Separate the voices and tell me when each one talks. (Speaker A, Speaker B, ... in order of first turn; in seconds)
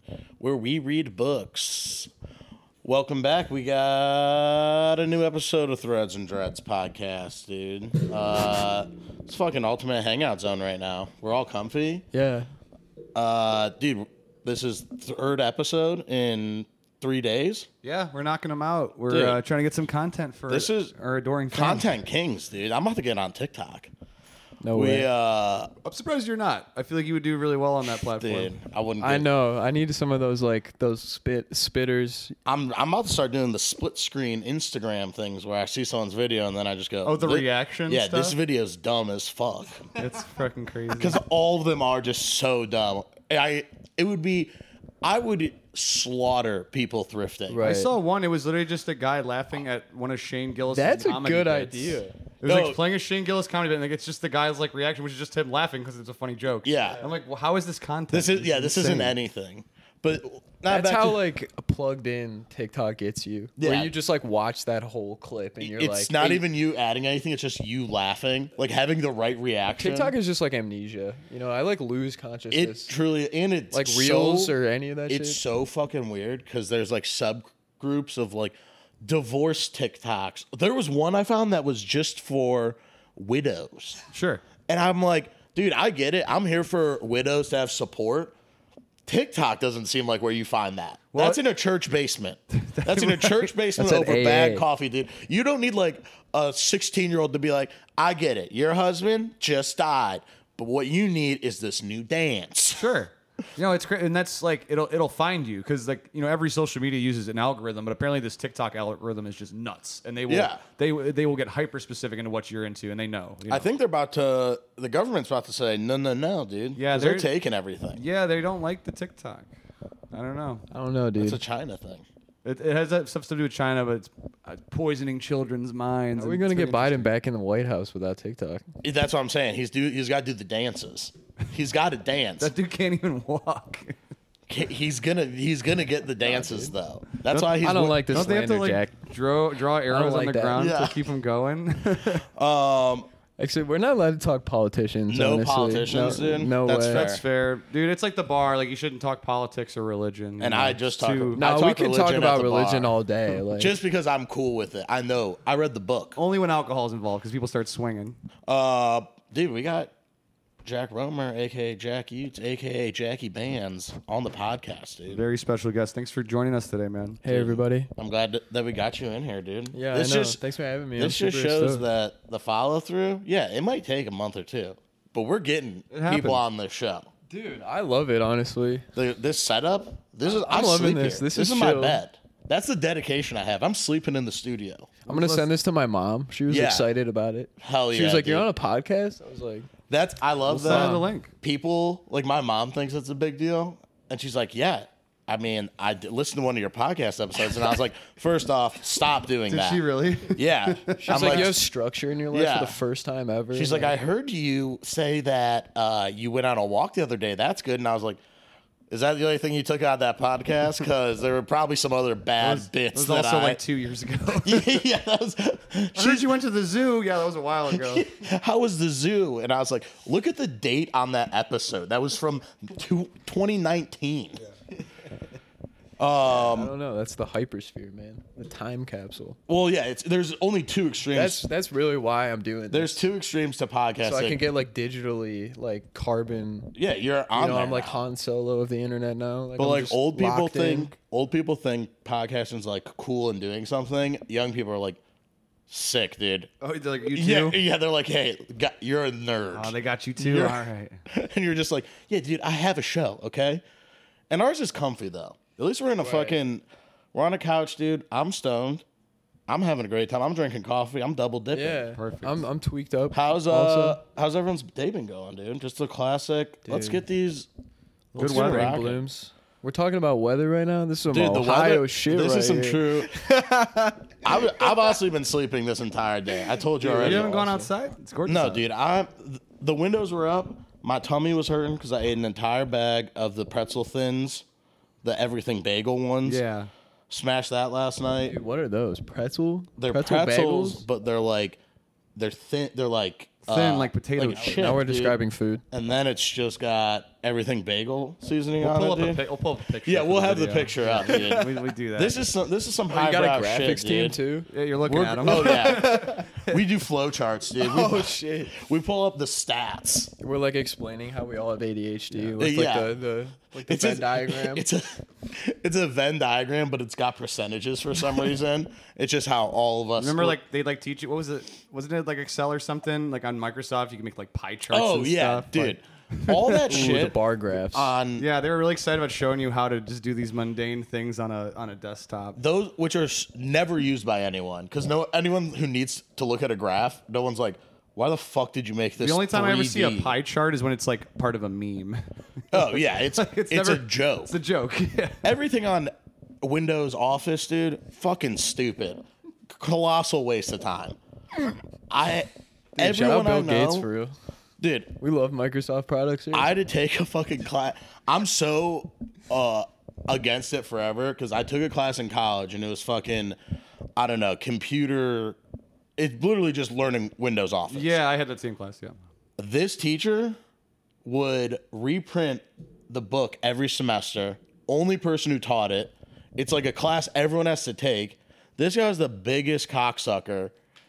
Speaker A: 0.4-2.1, 2.8-12.0, 13.1-17.7, 19.1-19.4, 20.5-20.9, 21.5-23.9, 24.7-25.7, 28.2-29.3, 32.5-39.9, 41.0-47.7, 52.4-52.8, 56.6-57.0, 58.1-61.2, 63.6-63.9, 65.6-70.1, 72.5-74.5, 75.1-84.0, 84.7-88.3, 89.0-102.9, 110.3-110.6, 113.5-118.0, 121.2-122.0, 128.8-132.5, 134.5-138.3, 140.5-141.0, 142.3-143.1, 145.1-147.2, 150.4-152.9, 153.6-156.2, 158.4-159.9, 160.6-165.2, 167.3-170.4, 170.9-177.1, 178.9-185.0, 186.5-186.9, 187.6-188.4, 189.9-199.8, 200.3-201.6, 202.3-202.8, 203.5-208.2, 208.9-213.6, 214.4-216.3, 217.7-224.4, 226.0-226.7, 229.5-231.5, 232.7-234.4, 236.7-238.0, 239.6-245.0, 245.7-246.5, 247.1-253.6, 254.3-258.8, 259.5-261.8, 263.1-267.5, 268.1-269.0, 271.1-273.1, 274.2-277.7, 278.3-284.4, 285.0-286.4, 287.1-288.4, 289.8-291.6, 292.1-295.2, 295.7-299.2, 299.8-304.2, 304.9-310.1, 312.4-312.9, 313.6-320.4, 324.7-327.2, 327.7-328.2, 332.3-340.1, 342.5-344.3, 345.2-353.9, 354.6-354.9, 356.3-363.4, 364.0-365.4, 366.0-368.0, 369.4-370.4, 371.0-380.5
Speaker B: 12.1-12.5, 24.6-25.1, 29.0-32.3, 47.5-47.9, 50.7-52.2, 60.6-66.5, 69.8-72.9, 73.7-75.4, 93.8-94.7, 120.7-121.4, 126.2-128.7, 136.2-136.7, 137.6-139.1, 139.9-140.7, 143.4-147.1, 151.3-153.8, 167.2-167.9, 169.7-171.8, 177.3-178.8, 180.2-182.0, 185.1-189.7, 190.6-191.1, 201.0-203.9, 226.2-229.4, 231.1-233.1, 234.0-236.7, 237.3-240.9, 256.0-256.4, 261.5-264.0, 266.6-267.1, 268.1-274.9, 277.0-277.3, 288.2-290.8, 294.2-295.6, 301.0-301.6, 302.9-304.5, 305.2-306.6, 307.6-308.7, 310.2-314.7, 326.7-327.9, 352.8-354.1, 355.0-356.5
Speaker C: 17.8-21.9, 25.8-28.5, 37.0-38.4, 40.0-41.2, 47.6-59.1, 84.1-84.4, 91.1-91.4, 92.6-93.5, 102.8-113.7, 116.8-117.3, 117.9-119.5, 120.1-120.6, 122.4-127.0, 132.4-134.0, 137.3-142.2, 146.7-151.4, 156.2-158.2, 165.1-167.2, 175.9-176.4, 185.1-185.5, 190.5-191.3, 199.5-201.4, 212.4-214.8, 215.9-218.1, 246.6-247.6, 249.5-251.0, 261.9-262.4, 268.2-268.8, 276.8-278.6, 286.2-286.7, 293.5-294.7, 298.6-302.2, 304.5-306.2, 320.0-327.0, 328.2-332.4, 339.0-345.2, 367.7-369.0